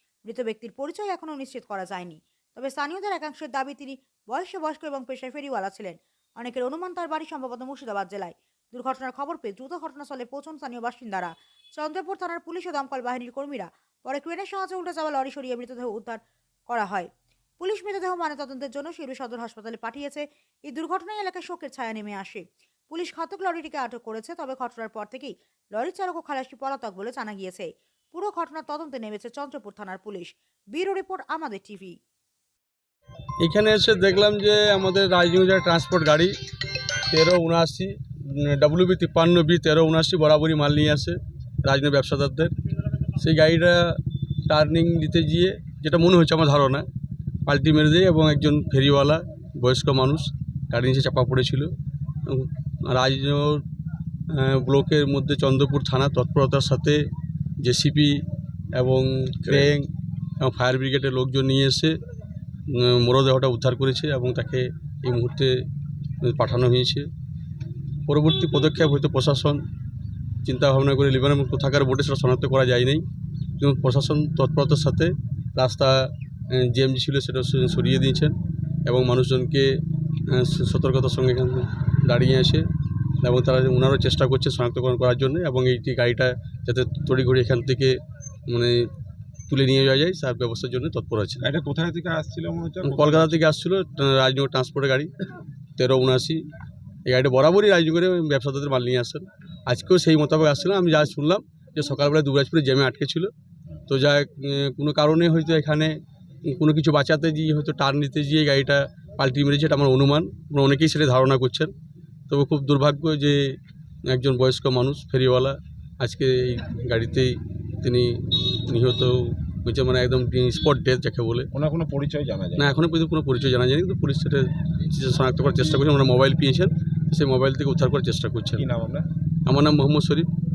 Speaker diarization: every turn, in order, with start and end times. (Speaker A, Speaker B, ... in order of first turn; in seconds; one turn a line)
Speaker A: 0.3-32.0
Speaker B: 33.4-36.3
Speaker B: 37.1-42.5
Speaker B: 43.2-46.9
Speaker B: 47.5-51.7
Speaker B: 52.2-53.6
Speaker B: 54.3-57.0
Speaker B: 57.6-58.2
Speaker B: 58.8-59.9
Speaker B: 60.4-61.9
Speaker B: 62.7-65.6
Speaker B: 66.2-67.1
Speaker B: 68.1-69.6
Speaker B: 70.4-73.0
Speaker B: 73.6-78.3
Speaker B: 78.8-79.7
Speaker B: 80.3-82.6
Speaker B: 83.2-88.9
Speaker B: 89.5-91.5
Speaker C: 91.4-93.3
Speaker B: 92.8-95.1
Speaker B: 95.8-96.4
Speaker B: 97.0-103.3
Speaker B: 103.9-106.0
Speaker B: 106.5-111.7
Speaker B: 112.3-113.5
Speaker B: 114.1-121.5
Speaker C: 121.5-122.8
Speaker B: 122.6-128.7
Speaker C: 128.6-129.1
Speaker B: 129.5-130.3